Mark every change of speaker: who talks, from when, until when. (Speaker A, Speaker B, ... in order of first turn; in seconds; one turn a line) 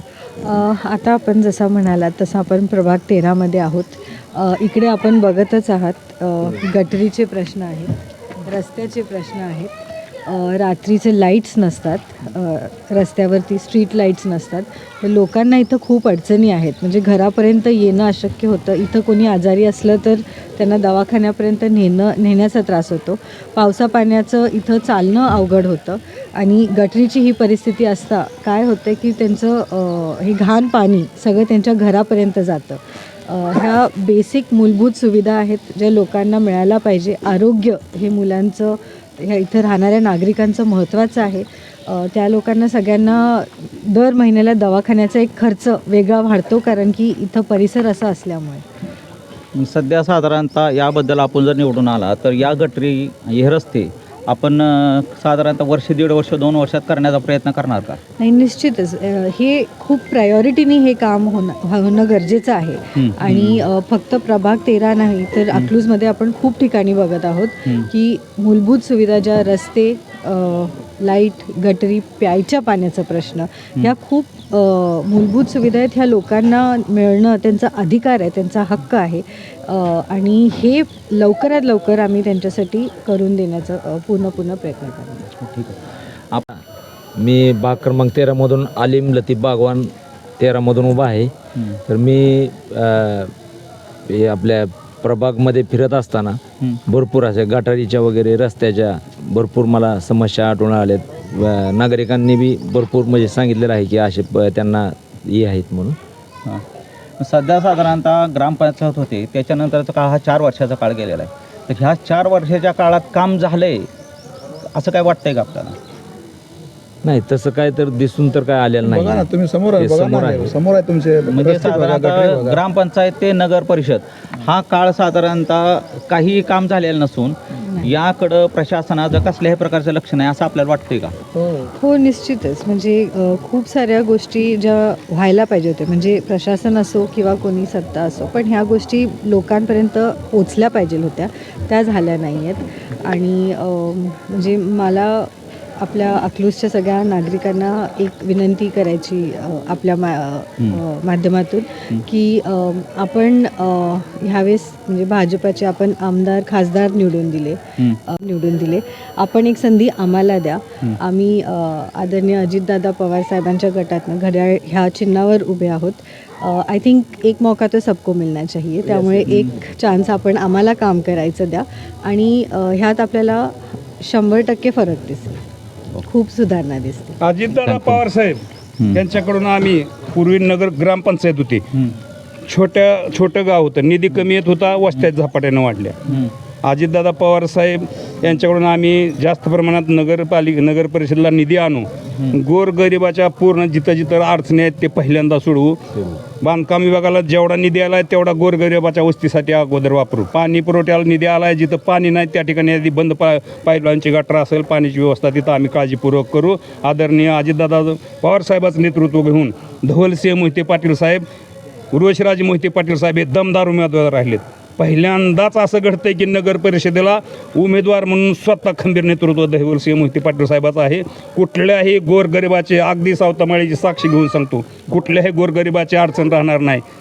Speaker A: 0.4-48.6
Speaker B: 49.5-58.0
Speaker A: 58.2-85.2
Speaker B: 63.0-63.6
Speaker B: 85.4-85.8
Speaker C: 87.2-91.3
Speaker C: 91.9-93.3
Speaker C: 94.1-106.0
Speaker B: 107.2-113.9
Speaker B: 114.6-115.8
Speaker C: 117.0-119.2
Speaker D: 118.8-122.6
Speaker C: 119.8-120.5
Speaker B: 121.3-131.2
Speaker A: 127.6-127.9
Speaker A: 131.6-175.4
Speaker A: 176.0-177.2
Speaker E: 177.2-181.7
Speaker B: 177.6-178.0
Speaker E: 182.5-186.1
Speaker E: 186.6-211.2
Speaker E: 211.9-226.8